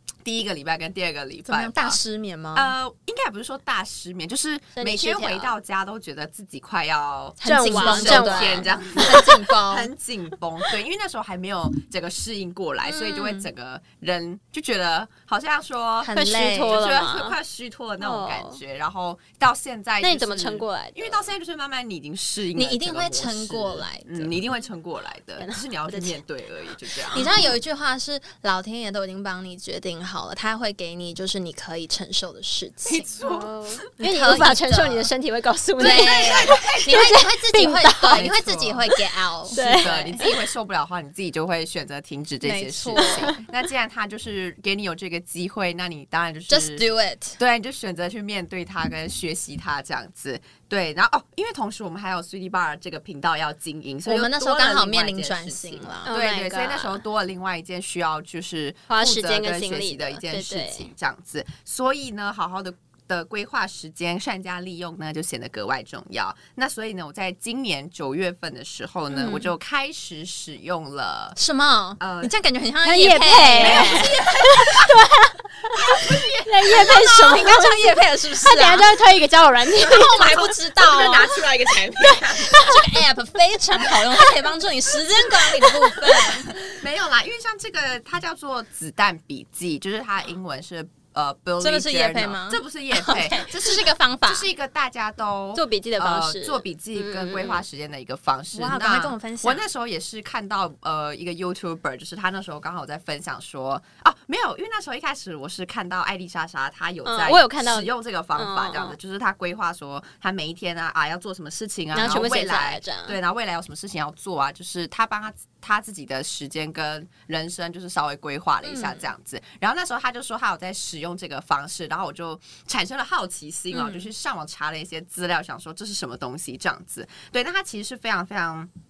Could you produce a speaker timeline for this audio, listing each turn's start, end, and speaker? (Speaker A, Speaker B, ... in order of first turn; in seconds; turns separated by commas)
Speaker A: 0.2-2.0, Speaker B: 1.4-2.7, Speaker A: 2.5-27.3, Speaker C: 4.8-5.5, Speaker B: 7.4-9.9, Speaker C: 7.4-9.4, Speaker B: 12.8-13.4, Speaker B: 16.0-16.8, Speaker C: 16.1-17.4, Speaker C: 18.0-18.6, Speaker C: 20.0-21.3, Speaker B: 22.5-24.4, Speaker C: 25.4-26.2, Speaker C: 27.1-27.5, Speaker B: 27.1-33.1, Speaker A: 32.8-33.7, Speaker C: 33.2-38.3, Speaker B: 34.0-35.1, Speaker B: 35.8-40.2, Speaker A: 35.8-37.2, Speaker A: 38.1-38.9, Speaker C: 39.5-40.4, Speaker A: 39.5-46.8, Speaker B: 42.4-43.3, Speaker C: 43.0-43.4, Speaker B: 46.5-47.4, Speaker A: 47.4-71.3, Speaker B: 54.0-56.1, Speaker C: 56.0-57.0, Speaker C: 58.9-60.9, Speaker B: 69.1-69.5, Speaker B: 71.3-74.2, Speaker A: 72.0-72.3, Speaker C: 72.8-80.4, Speaker A: 73.5-74.9, Speaker A: 75.7-77.4, Speaker B: 76.7-78.9, Speaker B: 79.8-81.5, Speaker A: 80.3-82.8, Speaker B: 82.4-86.6, Speaker A: 83.9-84.2, Speaker A: 86.4-128.7, Speaker B: 91.6-94.5, Speaker C: 95.5-97.6, Speaker B: 98.5-99.6, Speaker C: 107.0-109.0, Speaker C: 111.9-113.2, Speaker B: 118.7-119.0, Speaker C: 123.7-124.0